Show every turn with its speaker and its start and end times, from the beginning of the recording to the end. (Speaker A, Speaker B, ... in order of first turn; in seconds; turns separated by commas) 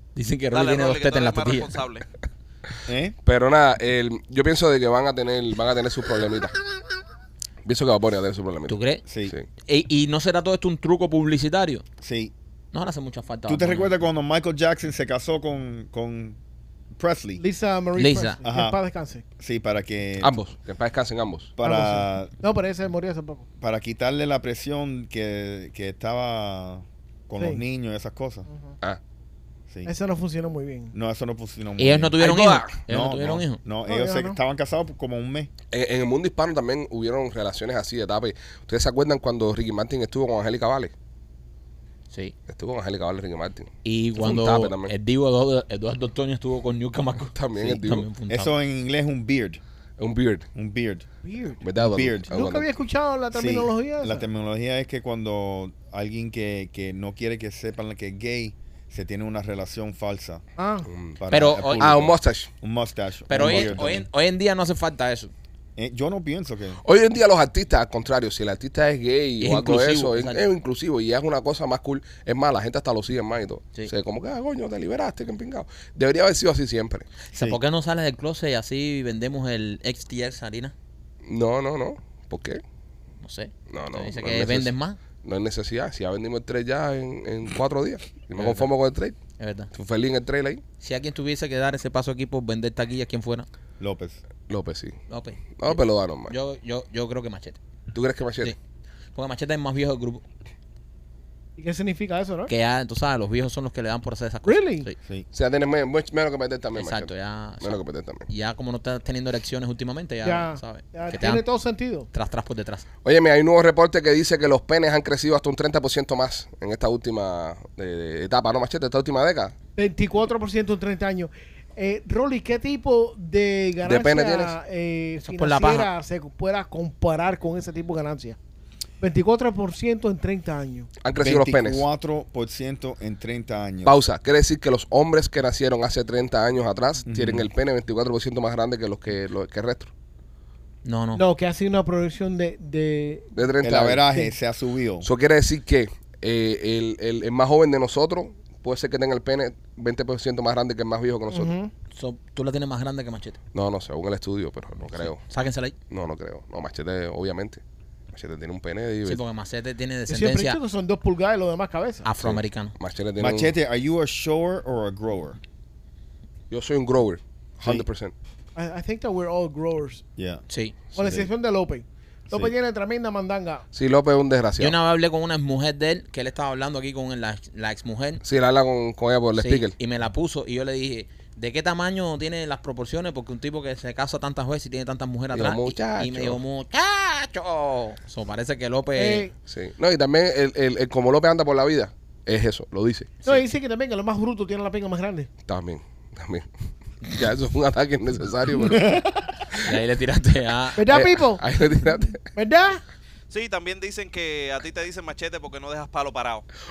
Speaker A: 0.2-1.8, Speaker B: 0.5-2.0, Speaker C: 2.9-3.1, Speaker D: 3.2-6.5, Speaker D: 7.7-9.4, Speaker A: 8.7-9.0, Speaker C: 9.1-9.3, Speaker A: 9.7-11.8, Speaker C: 12.0-12.3, Speaker A: 12.7-13.9, Speaker C: 13.5-16.4, Speaker C: 17.0-17.4, Speaker E: 17.4-19.2, Speaker A: 18.0-18.4, Speaker C: 18.4-18.8, Speaker C: 19.4-20.4, Speaker D: 20.2-21.5, Speaker C: 21.6-22.3, Speaker E: 21.6-23.5, Speaker C: 23.6-28.5, Speaker E: 29.9-30.9, Speaker C: 30.9-32.2, Speaker A: 31.8-33.6, Speaker D: 32.2-32.8, Speaker C: 32.9-35.5, Speaker E: 33.9-34.4, Speaker D: 35.7-40.9, Speaker D: 42.5-44.9, Speaker A: 43.8-48.5, Speaker D: 47.3-48.1, Speaker C: 47.6-49.6, Speaker D: 50.0-50.5, Speaker C: 50.5-51.1, Speaker E: 51.2-51.6, Speaker D: 51.6-52.7, Speaker C: 51.8-52.3, Speaker E: 52.3-54.2, Speaker C: 53.3-60.4, Speaker E: 60.6-60.9, Speaker D: 60.9-62.5, Speaker C: 61.2-64.1, Speaker A: 61.3-61.9, Speaker A: 63.3-65.3, Speaker D: 63.4-63.8, Speaker C: 65.8-66.8, Speaker D: 66.8-77.1, Speaker A: 69.4-70.4, Speaker A: 77.3-80.7, Speaker C: 77.3-77.6, Speaker D: 81.3-82.6, Speaker A: 83.2-85.0, Speaker D: 83.7-84.7, Speaker D: 85.2-89.2, Speaker A: 88.4-88.7, Speaker A: 89.4-89.7, Speaker D: 89.7-90.6, Speaker A: 90.8-93.5, Speaker C: 93.8-94.2, Speaker D: 94.5-95.0, Speaker A: 95.1-97.6, Speaker D: 95.6-96.3, Speaker D: 97.9-98.5, Speaker A: 99.2-100.2, Speaker E: 101.6-102.5, Speaker A: 102.5-105.0, Speaker E: 104.4-104.9, Speaker D: 105.3-108.3, Speaker A: 106.8-111.5, Speaker E: 110.2-112.1, Speaker A: 112.1-112.8, Speaker D: 113.0-119.5, Speaker E: 119.8-128.4, Speaker D: 123.8-124.5, Speaker A: 125.2-125.9, Speaker E: 129.0-130.9, Speaker D: 131.0-131.8, Speaker C: 131.1-134.0, Speaker D: 133.8-139.9, Speaker C: 137.1-137.5, Speaker A: 140.8-141.2, Speaker E: 141.2-143.3, Speaker D: 143.3-144.1, Speaker C: 143.6-145.1, Speaker D: 145.0-151.5, Speaker E: 151.3-151.7, Speaker A: 152.0-153.4, Speaker D: 153.5-155.2, Speaker A: 154.9-155.7, Speaker D: 155.9-157.6, Speaker D: 158.1-159.2, Speaker A: 159.1-160.6, Speaker E: 160.1-162.1, Speaker A: 162.0-162.8, Speaker D: 162.2-163.5, Speaker C: 163.2-165.4, Speaker D: 166.5-168.1, Speaker E: 168.6-170.0, Speaker C: 170.2-170.4, Speaker A: 170.5-170.8, Speaker E: 170.9-173.7, Speaker C: 171.0-171.3, Speaker D: 173.7-174.8, Speaker A: 174.6-178.2, Speaker D: 178.2-179.8, Speaker A: 179.4-189.3, Speaker D: 185.3-186.4, Speaker E: 188.9-189.3, Speaker D: 189.5-193.1, Speaker E: 193.2-195.3, Speaker D: 195.4-196.5, Speaker D: 197.0-198.9, Speaker C: 198.6-199.3, Speaker A: 199.7-200.9, Speaker E: 200.8-201.4, Speaker D: 200.9-202.2, Speaker E: 202.3-202.8, Speaker B: 203.3-206.4